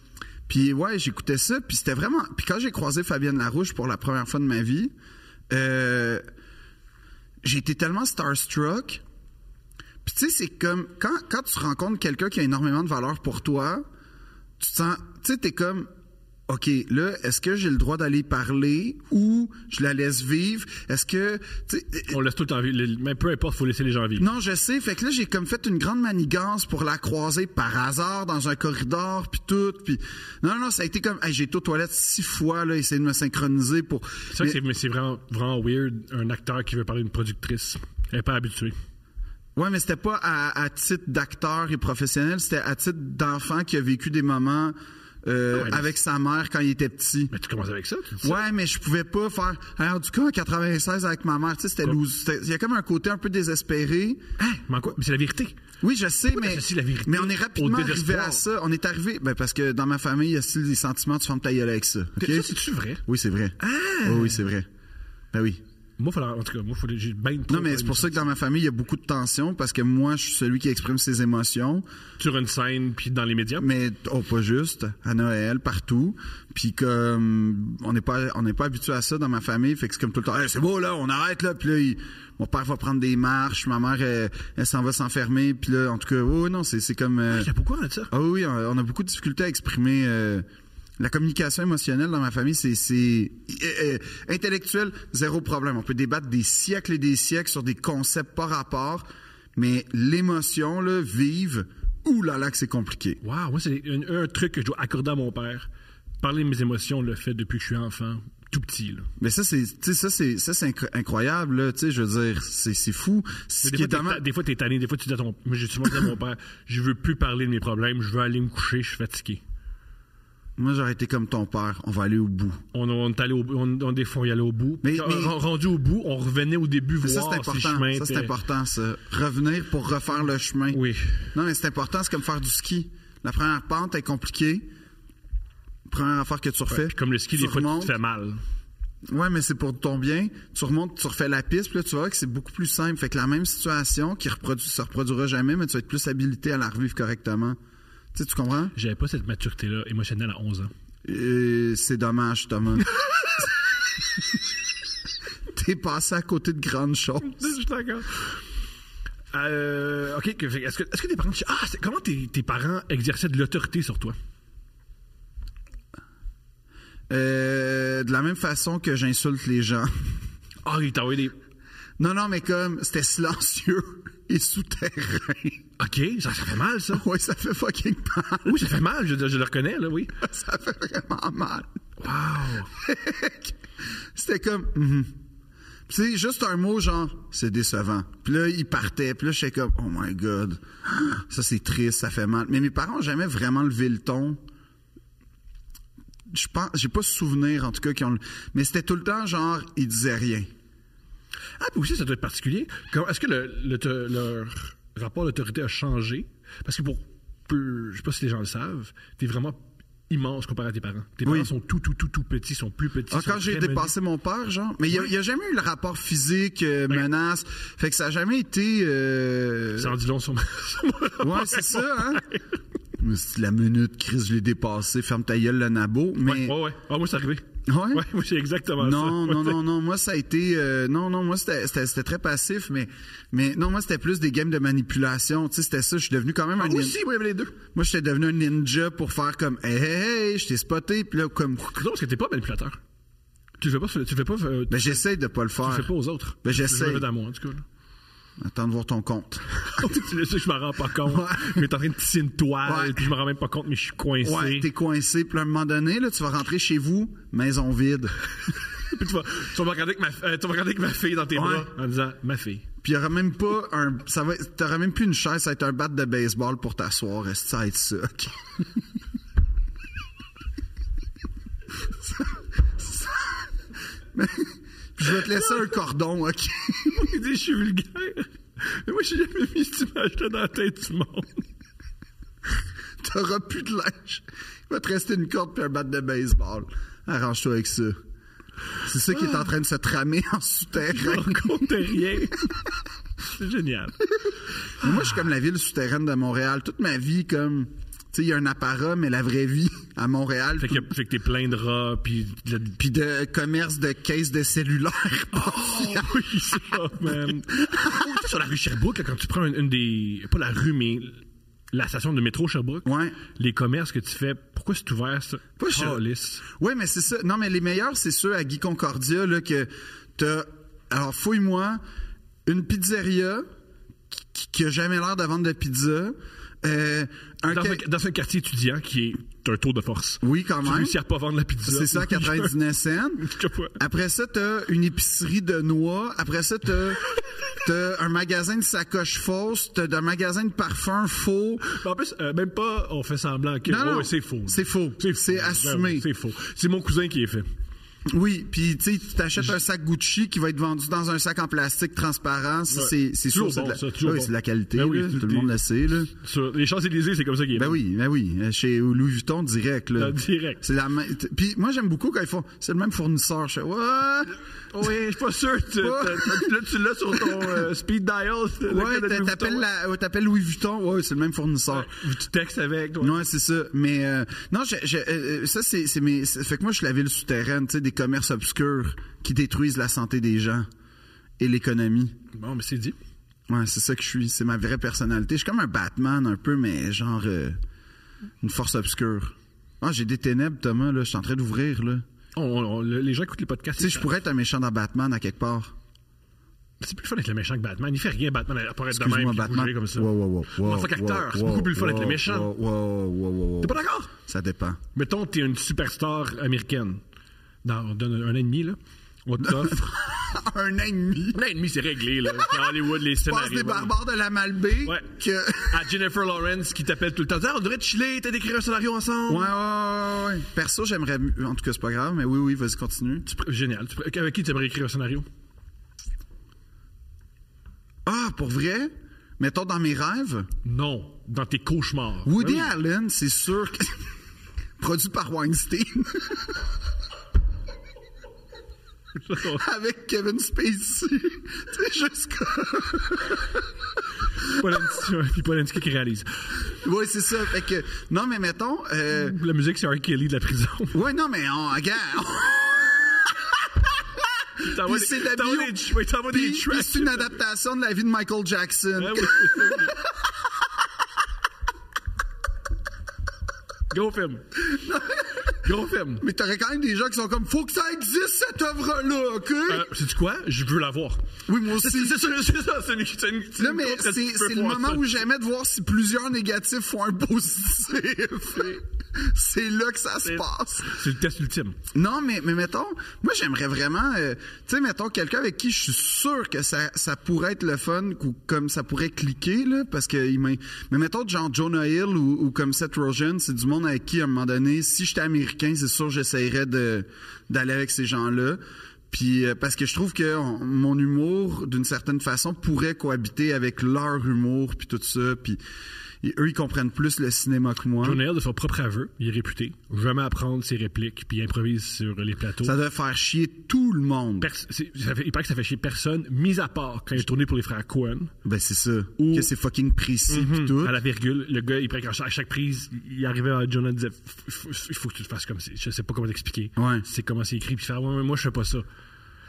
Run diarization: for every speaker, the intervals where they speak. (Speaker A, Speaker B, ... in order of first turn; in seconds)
Speaker A: 0.5-4.9, 5.5-6.2, 7.4-9.0, 10.0-13.8, 14.6-15.9, 16.5-22.2, 24.2-34.6, 39.6-47.3, 48.2-54.2, 55.8-64.7, 65.3-65.6, 67.5-71.8, 73.6-87.5, 88.1-90.5, 91.0-103.2, 109.2-114.2, 120.6-122.6, 124.8-125.4, 127.0-130.8, 131.3-134.7, 135.9-137.9, 139.1-147.6, 148.1-148.7, 151.1-153.5, 155.5-157.6, 167.1-170.2, 172.0-175.6, 176.9-178.7, 180.2-181.8, 182.7-183.6, 184.2-185.2, 185.9-194.4, 196.3-200.5, 211.2-211.5, 213.1-220.0, 221.2-222.2, 223.0-226.6, 227.7-228.1, 228.8-237.0, 237.7-241.8, 244.7-245.9, 246.4-247.1, 248.4-249.9, 251.0-251.6, 252.7-253.1, 254.2-258.2, 261.4-261.7, 262.8-268.8, 271.9-273.3, 274.1-277.1, 283.0-288.0, 288.8-291.6, 294.8-300.9, 302.8-306.2, 307.6-308.2, 312.9-313.2, 315.6-321.8, 322.5-323.5, 324.1-327.8, 330.2-331.0, 331.6-341.7, 343.6-346.1, 348.1-356.1, 357.6-364.4, 365.8-366.6, 367.1-367.6, 368.7-372.1, 373.0-380.7, 381.4-382.2, 383.5-387.6, 388.4-392.0, 393.8-395.7, 398.9-404.8, 409.4-411.4, 412.3-415.9, 419.3-423.3, 428.1-430.5, 432.2-434.1, 434.8-436.6, 439.4-443.4, 446.7-449.4, 450.9-460.1, 464.6-465.6, 466.2-469.9, 471.5-472.2, 473.6-481.0, 481.9-505.6, 506.2-508.2, 512.6-514.5, 518.4-521.0, 526.8-527.0
Speaker B: 22.1-24.3, 34.3-38.8, 45.5-45.9, 47.3-48.4, 54.4-55.6, 56.3-58.5, 62.2-63.0, 63.6-64.4, 66.0-68.3, 72.2-73.7, 87.3-88.1, 103.2-105.7, 106.2-109.1, 113.6-119.4, 122.7-128.3, 130.7-131.3, 136.7-138.4, 148.8-150.7, 157.2-158.4, 159.3-164.2, 170.6-171.3, 175.8-177.1, 178.4-180.2, 182.0-182.7, 201.6-213.9, 219.8-222.6, 226.2-229.6, 236.6-237.6, 241.6-242.8, 243.6-245.0, 245.6-247.7, 249.6-254.7, 258.7-262.7, 276.9-281.5, 290.8-292.5, 293.2-294.1, 300.6-302.8, 305.3-316.4, 327.5-332.6, 333.2-333.8, 341.6-347.5, 352.7-357.8, 360.0-360.6, 364.7-369.7, 371.7-373.2, 382.3-383.0, 392.4-394.1, 396.8-402.5, 403.6-404.1, 404.9-407.0, 407.6-409.9, 411.3-413.9, 414.9-415.1, 415.6-419.5, 423.2-425.3, 430.6-432.7, 439.1-439.6, 444.4-446.6, 449.1-451.0, 454.6-457.3, 459.0-460.0, 463.9-464.6, 465.6-466.3, 469.7-475.2, 480.2-481.8, 508.0-512.8, 514.4-518.3, 519.2-519.5, 520.3-528.9